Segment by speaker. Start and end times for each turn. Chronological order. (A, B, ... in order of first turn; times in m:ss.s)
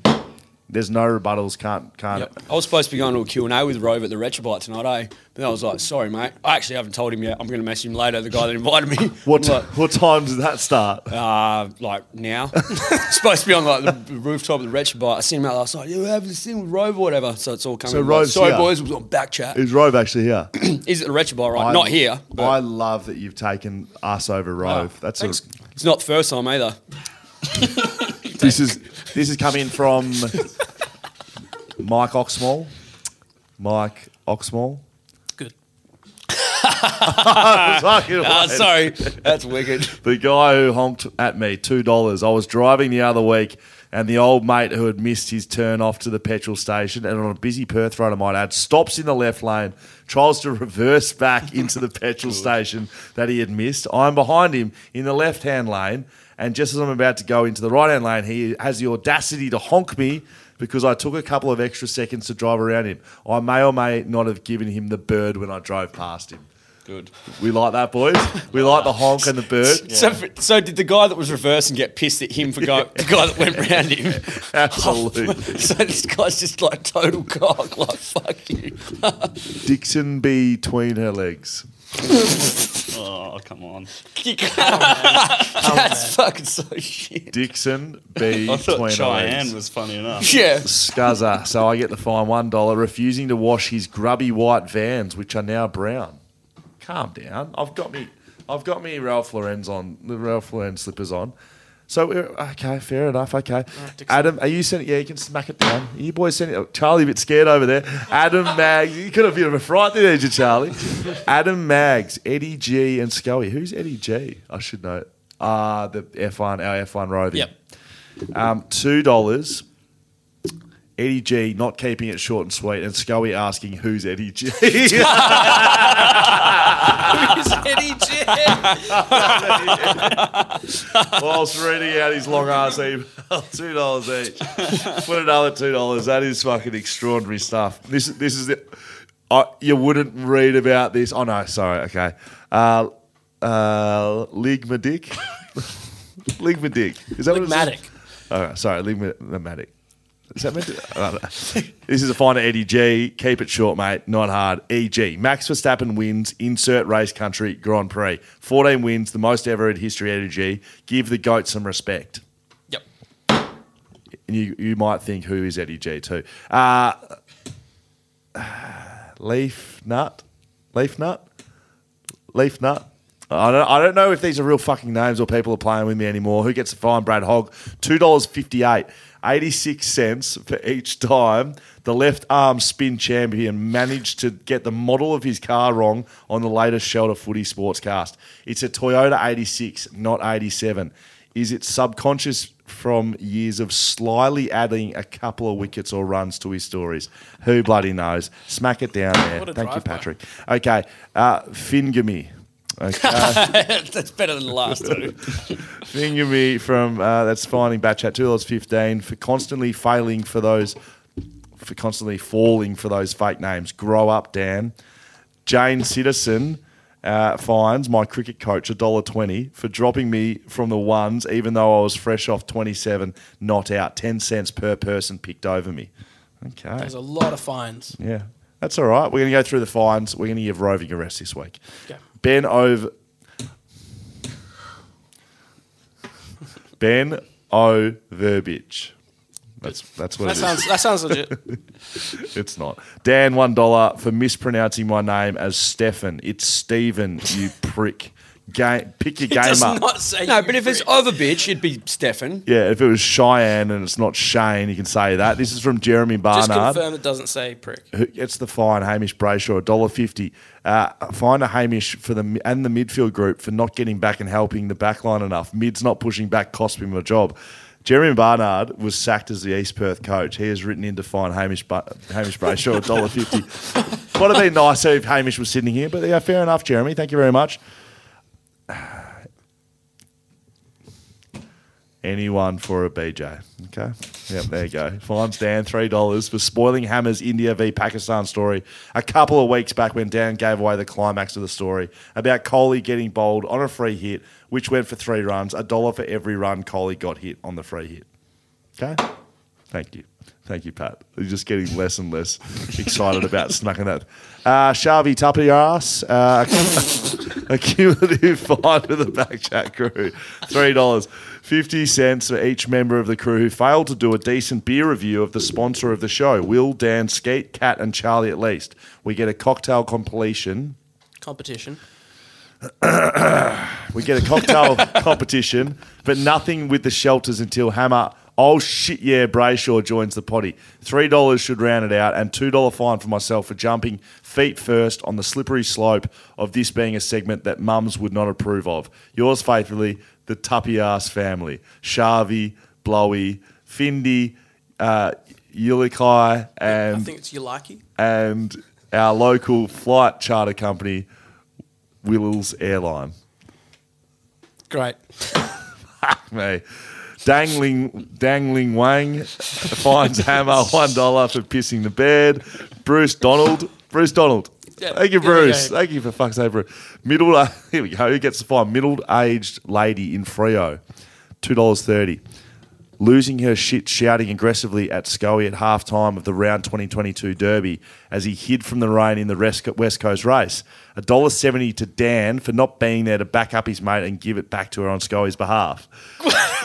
0:00.7-0:02.3 A
0:02.4-0:09.7 B
0:09.2-0:11.1 A
0:11.1-0:19.6 B
0:17.8-0:18.8 A
0:19.5-0:20.5 A
0:20.5-0:22.6 B
0:21.5-0:25.4 A
0:24.6-0:25.4 C
0:25.8-0:26.8 B
0:28.3-0:28.7 C
0:28.3-0:30.4 A
0:31.8-0:32.7 A
0:33.6-0:34.8 A
0:36.3-0:40.0 B
0:37.0-0:39.3 A
0:39.9-1:06.5 A
1:06.9-1:07.1 D
1:07.4-1:09.9 A
1:08.5-1:09.1 D
1:09.8-1:19.6 B
1:09.9-1:10.2 D
1:12.7-1:15.6 A
1:19.6-1:21.7 A
1:22.8-1:24.0 D
1:24.1-1:27.4 B
1:24.6-1:26.2 C
1:27.3-1:29.6 A
1:28.4-1:30.4 D
1:30.2-1:30.9 B
1:30.6-1:36.2 A
1:36.8-1:41.3 A
1:41.9-1:57.5 A
1:43.8-1:44.3 C
1:58.3-1:59.6 A
2:01.0-2:07.6 A
2:05.1-2:10.1 C
2:08.5-2:10.2 A
2:08.7-2:11.1 B
2:11.1-2:18.8 A
2:19.3-2:27.8 A
2:27.2-2:27.9 C
2:28.3-2:29.7 A
2:30.3-2:42.2 A
2:44.3-2:47.1 A
2:48.4-2:51.2 A
2:52.3-3:23.5 A
3:19.3-3:20.1 C
3:23.0-3:25.3 B
3:25.8-3:30.8 A
3:31.6-3:34.8 A
3:35.4-3:45.9 A
3:46.4-3:46.9 A
3:46.8-3:48.0 C
3:48.0-3:51.6 A
3:52.2-3:52.9 A
3:56.8-3:58.9 A
3:59.6-4:00.7 A
3:59.6-4:01.4 C
4:02.0-4:09.8 A
4:09.3-4:11.0 C
4:10.2-4:12.5 B
4:12.5-4:16.8 A
4:16.3-4:17.9 C
4:17.9-4:37.6 A
4:38.7-4:39.1 A
4:42.0-4:58.1 A
4:58.8-4:59.1 A
4:59.7-5:20.8 A
5:21.2-5:21.8 C
5:22.6-5:47.1 A
5:46.7-5:47.8 C
5:48.0-5:51.1 A
5:52.0-5:53.1 A
5:54.7-5:55.6 C
5:56.0-5:56.6 A
5:57.2-6:10.8 A
6:04.8-6:05.8 C
6:11.4-6:12.2 A
6:13.0-6:25.9 A